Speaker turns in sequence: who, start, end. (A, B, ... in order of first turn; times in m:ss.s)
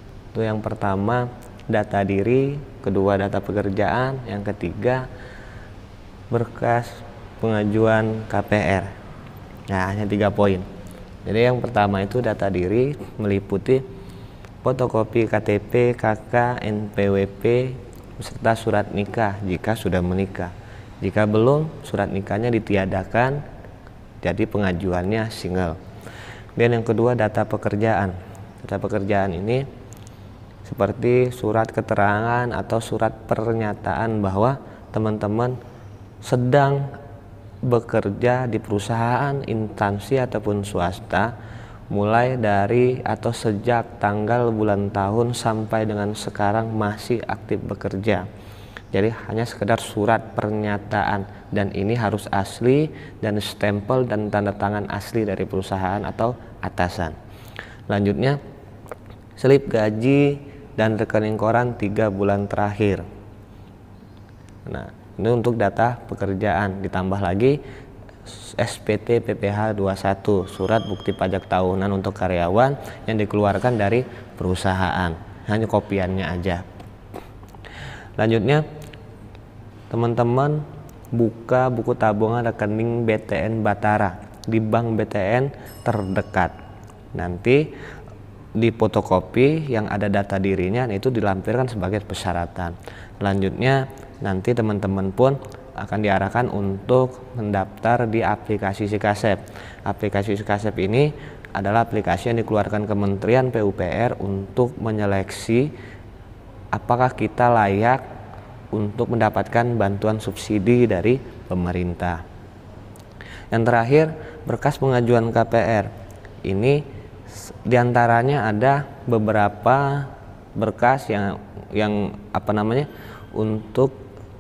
0:00.3-0:05.0 A
0:06.3-0:08.9 A
0:09.7-0:10.7 A
0:11.2-0:13.8 A
0:14.6-0:23.4 A
0:24.2-0:25.8 A
0:26.6-0:29.6 A
0:30.6-0:35.6 A
0:36.2-0:36.9 A
0:37.6-0:41.3 A
0:41.9-0:48.2 A
0:48.9-0:57.2 A
0:57.9-0:58.4 A
0:59.4-1:03.0 A
1:04.6-1:07.6 A
1:08.3-1:16.6 A
1:18.2-1:18.6 A
1:19.9-1:26.5 A
1:27.1-1:27.7 A
1:28.6-1:45.7 A
1:46.7-1:48.0 A
1:48.7-1:52.2 A
1:53.5-1:55.9 A
1:56.4-1:56.8 A
1:57.5-2:04.0 A